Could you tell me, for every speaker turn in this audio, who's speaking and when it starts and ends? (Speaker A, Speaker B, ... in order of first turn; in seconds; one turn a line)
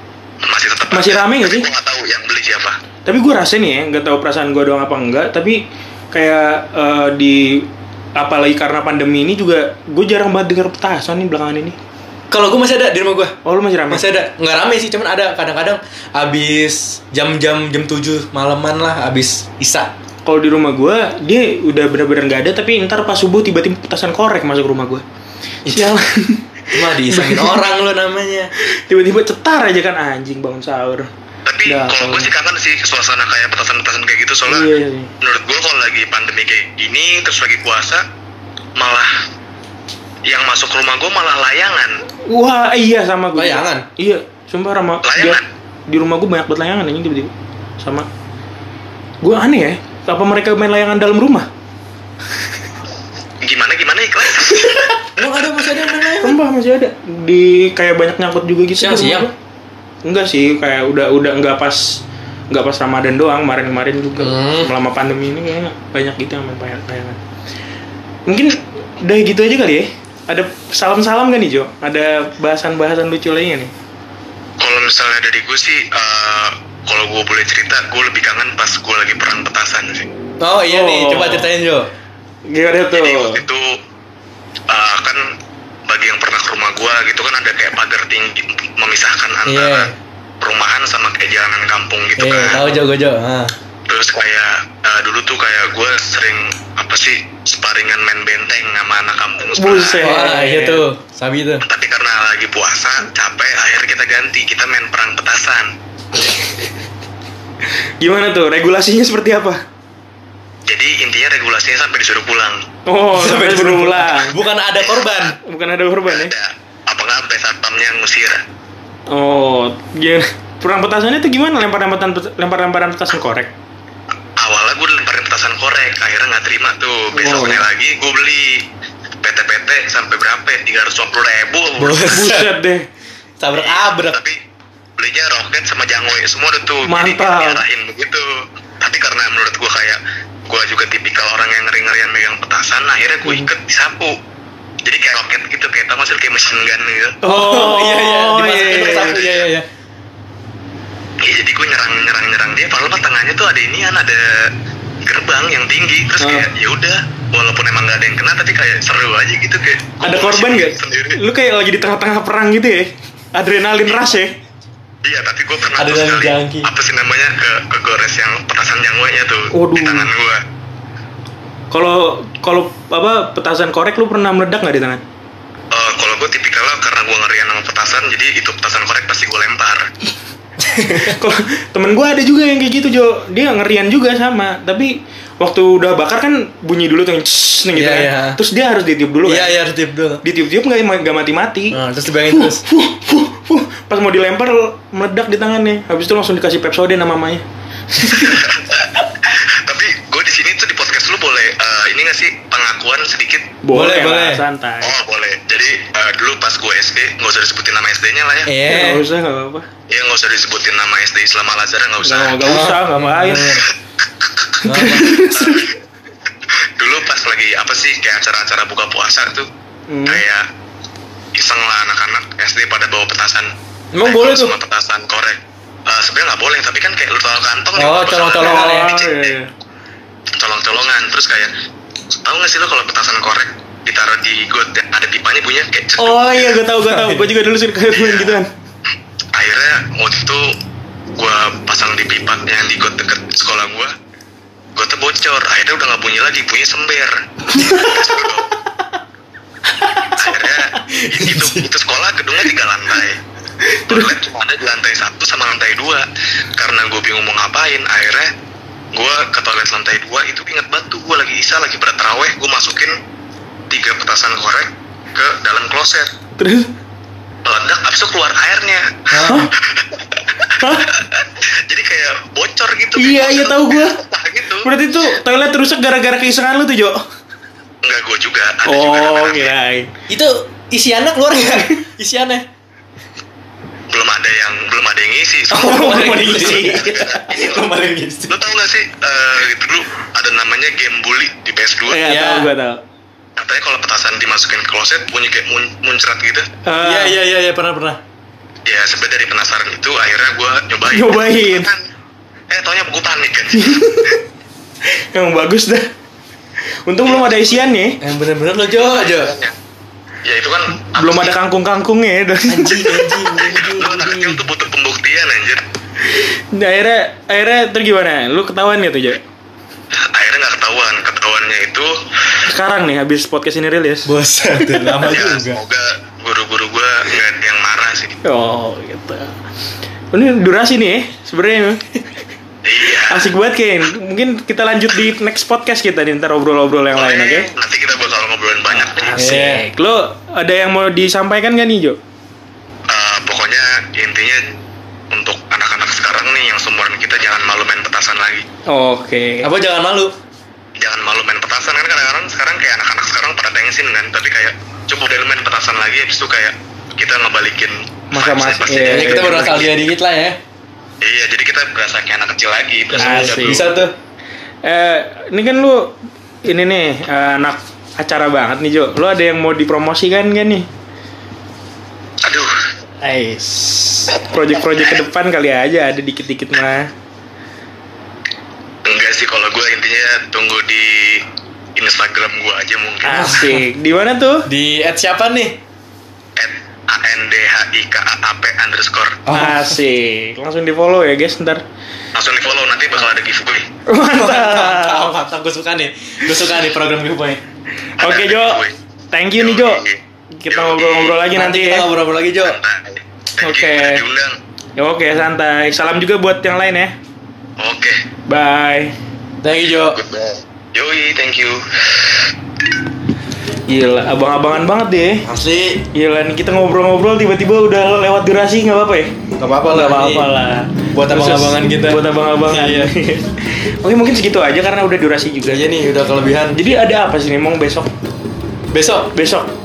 Speaker A: 0.5-2.8
Speaker B: 0.9-1.7
Speaker B: 3.1-11.8
Speaker C: 12.3-13.3
Speaker B: 13.4-14.1
Speaker C: 13.9-19.9
Speaker B: 20.2-25.0
Speaker C: 25.6-26.0
Speaker B: 25.7-27.6
Speaker C: 26.7-28.5
Speaker B: 28.6-31.1
Speaker A: 31.5-34.7
Speaker B: 31.6-32.3
Speaker B: 34.5-35.1
Speaker A: 35.2-38.0
Speaker A: 38.8-39.1
Speaker A: 40.3-41.9
Speaker B: 42.3-48.1
Speaker C: 43.4-43.9
Speaker A: 45.0-45.4
Speaker B: 49.2-51.5
Speaker A: 53.4-55.0
Speaker C: 55.1-56.4
Speaker B: 56.2-59.3
Speaker C: 58.8-59.3
Speaker B: 60.0-61.8
Speaker B: 62.5-67.2
Speaker C: 64.2-64.8
Speaker B: 68.3-73.7
Speaker A: 74.6-80.1
Speaker C: 80.4-81.9
Speaker B: 80.7-81.5
Speaker B: 82.5-83.4
Speaker A: 82.9-83.7
Speaker A: 84.7-85.2
Speaker A: 85.9-89.9
Speaker C: 89.5-89.9
Speaker A: 90.4-92.8
Speaker C: 92.2-93.5
Speaker A: 93.9-100.1
Speaker B: 99.6-100.8
Speaker C: 100.0-101.6
Speaker A: 101.6-105.7
Speaker B: 108.0-109.6
Speaker A: 110.7-112.6
Speaker B: 112.9-114.4
Speaker C: 113.1-115.4
Speaker A: 114.8-115.2
Speaker B: 115.4-116.3
Speaker A: 116.1-118.4
Speaker B: 119.1-123.5
Speaker A: 124.4-128.6
Speaker B: 127.1-127.6
Speaker A: 129.2-132.2
Speaker C: 131.8-132.5
Speaker B: 132.1-132.9
Speaker C: 133.4-134.2
Speaker A: 133.5-134.4
Speaker A: 135.0-138.3
Speaker B: 136.9-137.6
Speaker A: 138.8-144.1
Speaker A: 144.8-147.2
Speaker B: 147.2-149.2
Speaker C: 147.2-149.7
Speaker A: 149.0-149.5
Speaker A: 151.2-154.2
Speaker A: 155.1-161.2
Speaker B: 156.2-156.5
Speaker B: 160.0-164.3
Speaker A: 165.0-170.4
Speaker C: 165.8-166.7
Speaker B: 169.5-170.1
Speaker B: 171.7-175.0
Speaker A: 175.7-179.8
Speaker C: 180.6-181.2
Speaker B: 181.0-189.6
Speaker C: 187.8-188.4
Speaker C: 189.3-190.2
Speaker B: 190.2-191.8
Speaker C: 191.7-192.6
Speaker B: 192.3-197.4
Speaker B: 198.0-198.3
Speaker A: 198.1-203.5
Speaker B: 203.6-204.9
Speaker C: 203.7-204.4
Speaker A: 204.8-208.5
Speaker C: 208.5-209.1
Speaker B: 208.7-209.7
Speaker A: 209.9-212.5
Speaker B: 212.0-213.6
Speaker C: 212.4-213.7
Speaker C: 214.7-215.2
Speaker B: 214.7-215.6
Speaker A: 215.3-215.7
Speaker A: 216.8-219.5
Speaker B: 219.9-220.2
Speaker A: 220.1-220.4
Speaker A: 221.4-223.5
Speaker C: 223.9-224.6
Speaker A: 224.0-229.3
Speaker C: 227.8-228.9
Speaker B: 228.4-229.5
Speaker A: 230.4-231.5
Speaker A: 232.2-236.6
Speaker B: 236.0-238.5
Speaker C: 236.8-237.3
Speaker A: 237.9-238.4
Speaker A: 239.4-240.4
Speaker A: 241.2-243.9
Speaker A: 244.8-247.1
Speaker A: 247.7-248.5
Speaker C: 250.0-251.7
Speaker A: 250.2-253.2
Speaker A: 253.9-256.1
Speaker A: 256.6-258.3
Speaker A: 258.9-262.9
Speaker A: 263.7-266.1
Speaker B: 266.4-266.7
Speaker A: 267.4-269.1
Speaker C: 269.1-269.5
Speaker A: 269.8-270.7
Speaker B: 270.6-270.9
Speaker A: 271.7-274.7
Speaker B: 273.0-273.9
Speaker B: 274.6-277.0
Speaker A: 277.8-279.5
Speaker B: 278.7-279.9
Speaker C: 280.1-282.5
Speaker A: 283.9-285.7
Speaker B: 285.5-287.0
Speaker C: 285.5-288.4
Speaker A: 286.4-287.7
Speaker A: 288.3-292.0
Speaker B: 291.9-292.8
Speaker C: 292.0-292.5
Speaker A: 293.4-296.4
Speaker B: 296.6-297.2
Speaker C: 296.8-298.0
Speaker A: 298.7-301.8
Speaker B: 300.9-301.7
Speaker A: 302.5-303.9
Speaker B: 303.5-304.1
Speaker B: 304.9-305.9
Speaker B: 306.9-308.0
Speaker A: 307.1-307.6
Speaker C: 308.0-309.3
Speaker A: 308.8-309.6
Speaker A: 310.2-311.3
Speaker B: 311.0-313.5
Speaker C: 312.5-314.4
Speaker A: 313.8-315.6
Speaker B: 316.1-319.2
Speaker A: 320.1-321.9
Speaker B: 322.5-324.1
Speaker C: 324.1-325.6
Speaker B: 324.6-325.0
Speaker A: 325.0-328.2
Speaker B: 328.2-329.3
Speaker B: 330.1-331.8
Speaker A: 332.6-333.3
Speaker B: 332.9-337.5
Speaker A: 336.9-339.2
Speaker B: 338.7-342.0
Speaker C: 339.2-339.6
Speaker A: 342.9-344.4
Speaker A: 345.1-348.4
Speaker B: 348.7-349.5
Speaker C: 349.4-350.1
Speaker A: 350.8-359.9
Speaker B: 358.1-359.7
Speaker C: 358.7-360.4
Speaker A: 361.0-363.7
Speaker C: 362.9-363.9
Speaker B: 362.9-363.7
Speaker B: 364.6-365.9
Speaker B: 366.5-370.7
Speaker A: 372.2-372.5
Speaker B: 373.0-376.9
Speaker A: 378.9-381.2
Speaker A: 381.8-383.3
Speaker B: 383.0-384.5
Speaker C: 383.1-383.7
Speaker C: 384.5-385.6
Speaker A: 386.4-389.2
Speaker C: 389.3-389.8
Speaker B: 389.3-391.6
Speaker A: 392.1-393.7
Speaker B: 393.9-395.1
Speaker C: 394.1-397.4
Speaker B: 398.0-399.8
Speaker A: 398.0-398.7
Speaker A: 399.4-400.0
Speaker B: 400.4-401.9
Speaker A: 400.5-401.3
Speaker C: 401.3-402.6
Speaker A: 402.3-404.4
Speaker B: 403.4-404.0
Speaker B: 404.8-406.9
Speaker A: 407.6-408.0
Speaker B: 408.3-408.9
Speaker C: 409.4-410.0
Speaker A: 409.9-412.2
Speaker B: 413.7-415.2
Speaker C: 415.2-415.8
Speaker B: 415.9-419.1
Speaker C: 419.4-420.3
Speaker B: 419.7-425.6
Speaker C: 420.9-422.9
Speaker C: 425.4-426.6
Speaker B: 426.5-427.9
Speaker C: 428.7-429.1
Speaker B: 429.1-429.5